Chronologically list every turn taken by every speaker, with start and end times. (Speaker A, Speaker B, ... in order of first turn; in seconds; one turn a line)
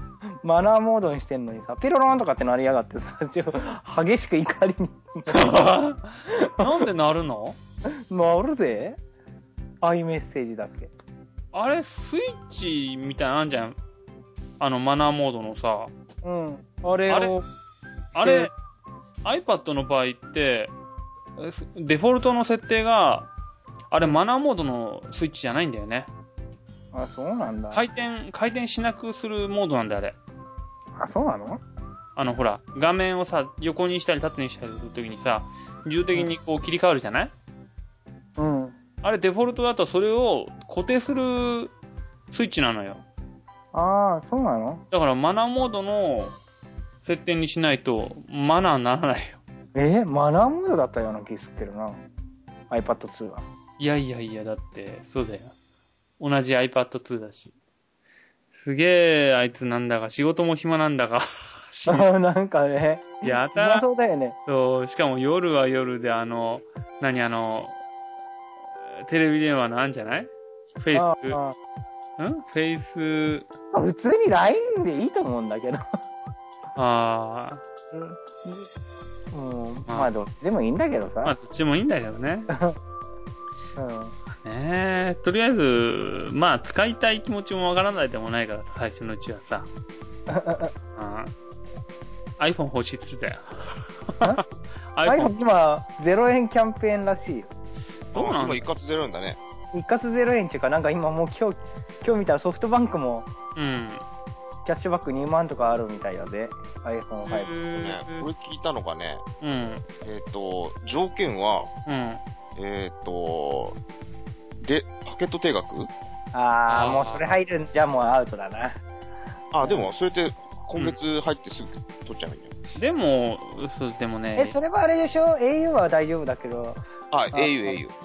Speaker A: 0.4-5.8
Speaker B: 5.3-7.6
Speaker A: 6.3-6.8
Speaker A: 7.9-9.0
Speaker A: 9.8-10.9
Speaker B: 11.5-13.8
Speaker B: 14.6-15.9
Speaker A: 16.2-17.4
Speaker B: 17.1-17.4
Speaker B: 18.1-18.5
Speaker A: 18.2-18.5
Speaker B: 19.2-20.7
Speaker B: 21.4-23.3
Speaker B: 23.9-26.1
Speaker A: 26.9-27.8
Speaker B: 27.7-30.2
Speaker A: 31.0-31.6
Speaker B: 32.2-37.3
Speaker A: 38.4-38.8
Speaker B: 39.0-41.7
Speaker B: 42.3-43.0
Speaker A: 43.7-44.8
Speaker B: 44.9-46.4
Speaker B: 47.0-49.4
Speaker A: 49.8-52.0
Speaker A: 52.7-53.4
Speaker B: 53.8-55.5
Speaker B: 56.2-57.5
Speaker B: 58.6-62.1
Speaker A: 61.9-64.4
Speaker B: 63.2-63.9
Speaker B: 64.5-67.8
Speaker B: 69.1-71.4
Speaker A: 70.9-71.5
Speaker B: 72.2-73.5
Speaker A: 73.7-75.8
Speaker B: 76.8-77.6
Speaker A: 77.9-78.7
Speaker A: 79.3-81.3
Speaker B: 81.2-82.5
Speaker A: 82.5-82.8
Speaker A: 83.8-84.1
Speaker B: 84.4-89.7
Speaker A: 90.3-90.7
Speaker B: 91.0-91.3
Speaker B: 92.4-94.4
Speaker B: 94.9-95.3
Speaker A: 95.0-97.5
Speaker B: 98.1-98.7
Speaker C: 98.1-99.4
Speaker A: 99.7-103.3
Speaker B: 103.6-104.0
Speaker A: 104.7-107.5
Speaker B: 107.2-108.3
Speaker C: 107.8-109.2
Speaker B: 109.4-109.8
Speaker C: 110.0-111.7
Speaker B: 111.9-112.2
Speaker C: 112.6-113.8
Speaker C: 114.6-115.9
Speaker A: 116.3-118.8
Speaker B: 116.7-117.3
Speaker C: 119.5-122.5
Speaker A: 119.6-119.9
Speaker B: 122.8-124.6
Speaker A: 124.4-126.8
Speaker C: 127.1-127.9
Speaker A: 127.3-127.8